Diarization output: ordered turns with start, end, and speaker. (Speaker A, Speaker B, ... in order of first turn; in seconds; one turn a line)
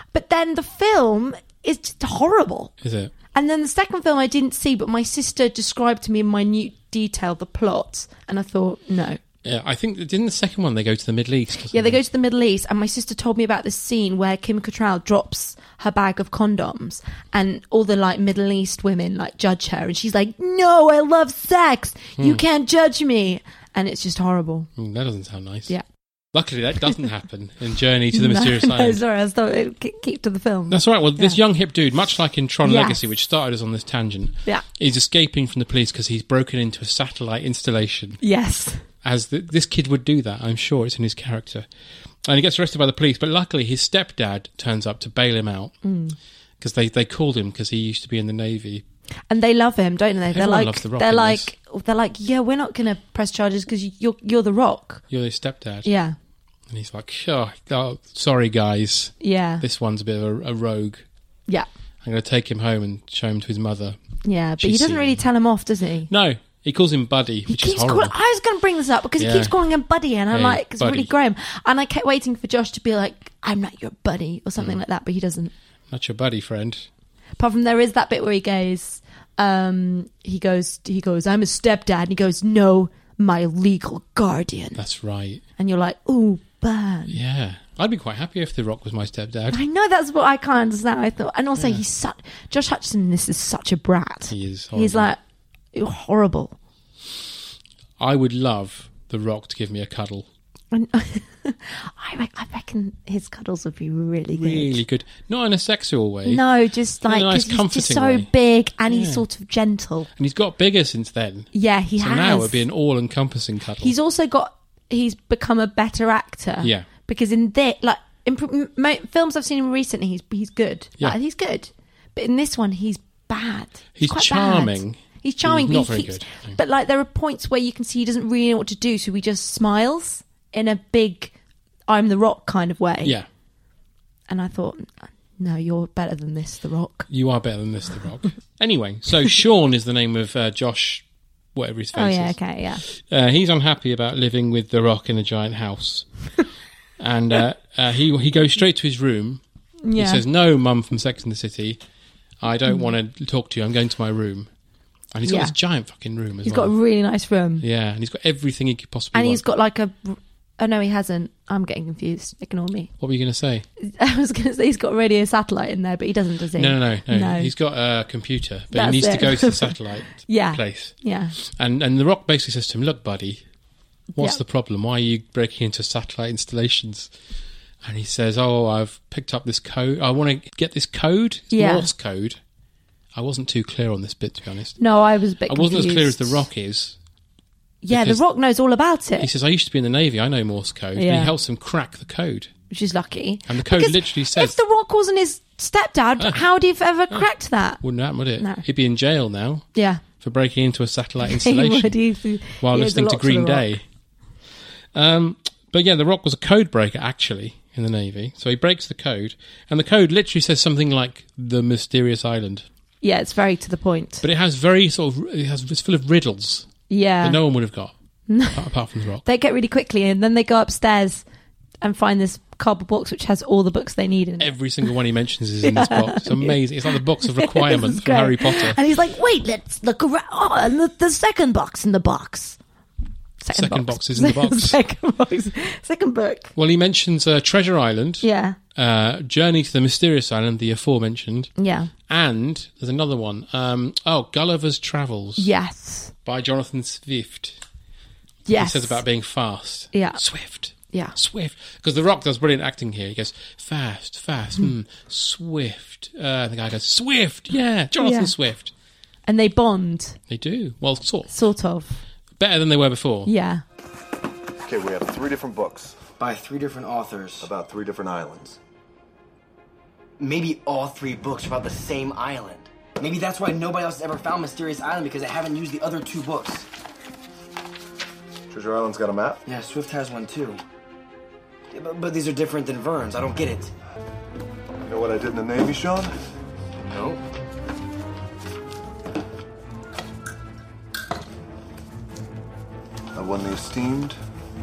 Speaker A: 0.1-2.7
Speaker B: 2.8-3.1
Speaker A: 3.3-9.2
Speaker B: 9.4-12.0
Speaker A: 11.7-24.7
Speaker B: 24.8-25.7
Speaker B: 26.3-29.0
Speaker A: 28.1-31.4
Speaker B: 30.7-38.2
Speaker A: 32.6-33.0
Speaker A: 38.2-38.8
Speaker B: 39.0-41.7
Speaker B: 42.2-45.8
Speaker A: 45.8-46.1
Speaker B: 46.6-48.8
Speaker A: 49.3-55.0
Speaker B: 50.3-51.5
Speaker B: 55.1-55.9
Speaker A: 55.8-56.1
Speaker B: 56.7-61.0
Speaker A: 59.2-59.6
Speaker B: 62.0-64.0
Speaker A: 64.2-66.1
Speaker B: 64.6-65.2
Speaker B: 66.1-68.1
Speaker A: 67.5-75.5
Speaker B: 69.2-69.5
Speaker B: 70.3-71.1
Speaker B: 75.9-76.9
Speaker A: 77.4-84.8
Speaker B: 84.8-85.4
Speaker A: 85.6-87.2
Speaker B: 87.1-89.6
Speaker A: 89.5-95.2
Speaker B: 94.3-95.1
Speaker A: 95.7-96.5
Speaker B: 98.0-100.3
Speaker A: 100.7-104.8
Speaker B: 104.3-106.4
Speaker A: 106.2-110.1
Speaker B: 107.0-108.3
Speaker B: 108.9-109.2
Speaker B: 110.2-113.9
Speaker A: 111.5-112.6
Speaker A: 113.8-131.3
Speaker B: 116.6-116.9
Speaker B: 124.0-126.6
Speaker A: 131.9-133.1
Speaker A: 134.3-137.1
Speaker B: 137.1-141.0
Speaker B: 141.5-146.1
Speaker A: 141.9-142.8
Speaker B: 147.0-149.4
Speaker A: 149.8-150.2
Speaker B: 149.9-151.8
Speaker B: 152.4-154.5
Speaker B: 155.1-156.8
Speaker A: 155.2-155.5
Speaker A: 156.4-157.6
Speaker B: 157.6-159.4
Speaker A: 159.1-162.9
Speaker B: 163.0-163.7
Speaker A: 163.8-167.5
Speaker B: 166.6-173.4
Speaker A: 168.7-171.3
Speaker B: 174.1-177.1
Speaker B: 177.8-182.4
Speaker A: 181.5-181.9
Speaker B: 183.1-184.8
Speaker A: 184.8-186.4
Speaker B: 185.5-186.9
Speaker A: 187.8-189.3
Speaker B: 187.9-188.2
Speaker B: 189.2-192.5
Speaker A: 191.0-191.3
Speaker A: 192.7-197.8
Speaker B: 193.5-194.6
Speaker B: 196.2-196.4
Speaker B: 197.8-199.7
Speaker A: 199.8-200.0
Speaker B: 200.2-202.0
Speaker A: 201.3-203.6
Speaker B: 202.6-203.8
Speaker B: 204.9-212.7
Speaker A: 213.0-214.2
Speaker B: 214.2-217.9
Speaker A: 216.9-217.4
Speaker A: 218.3-218.6
Speaker B: 218.5-219.2
Speaker A: 219.2-221.2
Speaker A: 221.8-224.5
Speaker B: 224.4-228.8
Speaker A: 225.6-232.6
Speaker A: 233.4-236.5
Speaker B: 233.5-234.8
Speaker B: 236.6-241.5
Speaker A: 238.2-238.6
Speaker A: 241.6-241.9
Speaker B: 242.1-245.5
Speaker A: 245.4-246.1
Speaker B: 246.2-247.6
Speaker A: 248.4-249.0
Speaker B: 248.6-258.7
Speaker A: 249.9-250.2
Speaker A: 258.0-258.3
Speaker A: 259.3-260.2
Speaker B: 260.3-261.3
Speaker A: 261.3-262.0
Speaker B: 262.4-263.3
Speaker A: 263.2-263.6
Speaker C: 264.6-265.9
Speaker D: 266.2-267.5
Speaker C: 267.4-268.6
Speaker D: 270.2-276.7
Speaker C: 278.5-279.4
Speaker D: 279.4-280.6
Speaker D: 281.7-283.7
Speaker C: 284.9-286.1
Speaker C: 293.1-294.2